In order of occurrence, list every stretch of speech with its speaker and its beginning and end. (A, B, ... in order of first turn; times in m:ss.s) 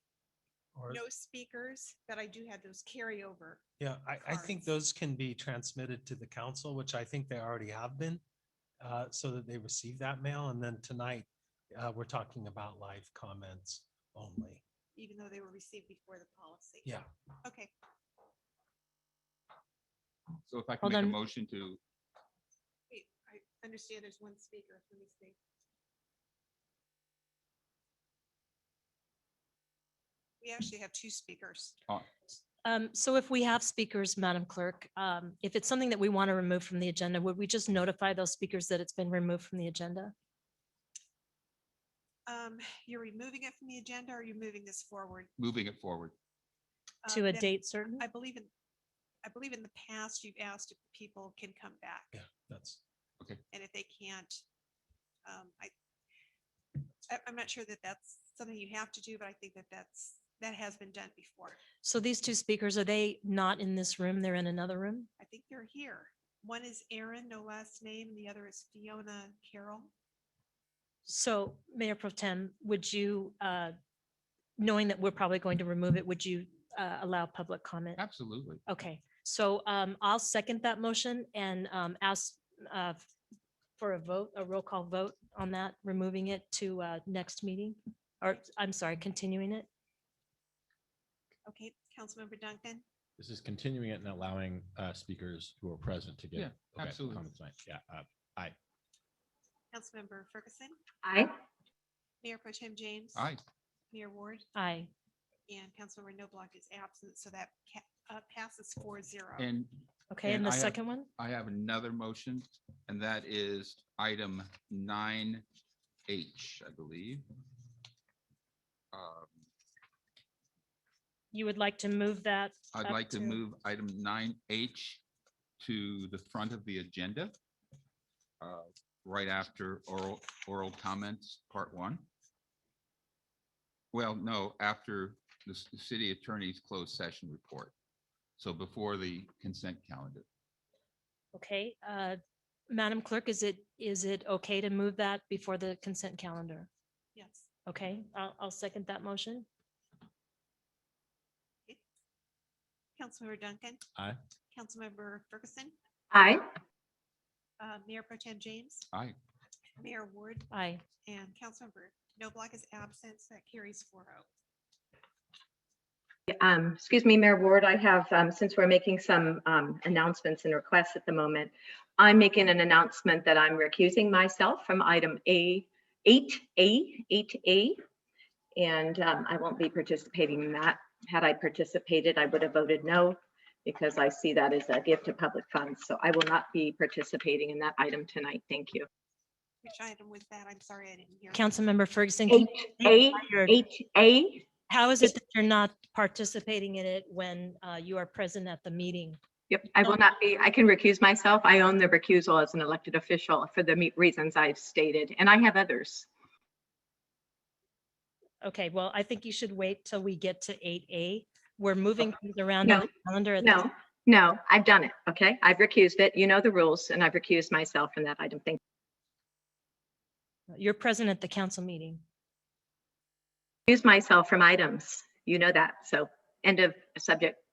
0:00.8-0:01.0 A
0:00.9-0:03.6 B
0:03.8-0:08.2 A
0:04.2-0:04.7 B
0:08.8-0:14.6 A
0:15.0-0:17.7 B
0:20.5-0:21.8 C
0:20.8-0:21.2 D
0:22.9-0:25.4 B
0:30.4-0:31.8 B
0:32.6-0:40.1 D
0:42.3-0:45.3 B
0:45.4-0:46.1 C
0:47.0-0:48.5 B
0:47.1-0:48.0 D
0:49.2-0:52.1 B
0:52.1-0:52.8 A
0:53.5-0:54.4 B
0:55.2-0:55.7 B
0:57.1-1:01.6 B
1:01.8-1:05.1 D
1:05.2-1:09.9 B
1:11.1-1:13.7 D
1:14.6-1:18.0 D
1:18.0-1:18.6 C
1:18.7-1:23.1 D
1:23.8-1:29.7 D
1:31.5-1:32.8 B
1:33.2-1:38.6 E
1:36.4-1:37.2 C
1:39.7-1:40.8 B
1:41.0-1:41.3 F
1:42.2-1:43.3 B
1:43.1-1:43.4 C
1:43.9-1:44.4 B
1:44.6-1:44.9 D
1:45.5-1:49.5 B
1:49.4-1:55.4 C
1:50.1-1:51.1 D
1:56.1-1:57.2 C
1:58.9-1:59.4 C
2:01.3-2:03.4 D
2:02.7-2:05.0 C
2:05.6-2:07.3 C
2:08.4-2:12.0 C
2:13.9-2:17.7 C
2:18.4-2:20.3 C
2:21.3-2:22.2 D
2:22.7-2:26.7 D
2:27.2-2:27.5 B
2:27.7-2:29.5 D
2:33.0-2:33.8 B
2:34.5-2:35.7 B
2:36.1-2:36.4 F
2:37.6-2:38.9 B
2:39.8-2:44.3 B
2:40.5-2:40.8 D
2:46.3-2:57.8 F
2:58.6-3:08.9 F
3:09.6-3:11.5 B
3:11.3-3:13.6 D
3:12.3-3:14.5 F
3:14.7-3:19.2 D
3:19.5-3:26.1 F
3:28.4-3:33.7 D
3:33.4-3:38.6 F
3:40.5-3:42.0 D
3:43.7-3:47.4 F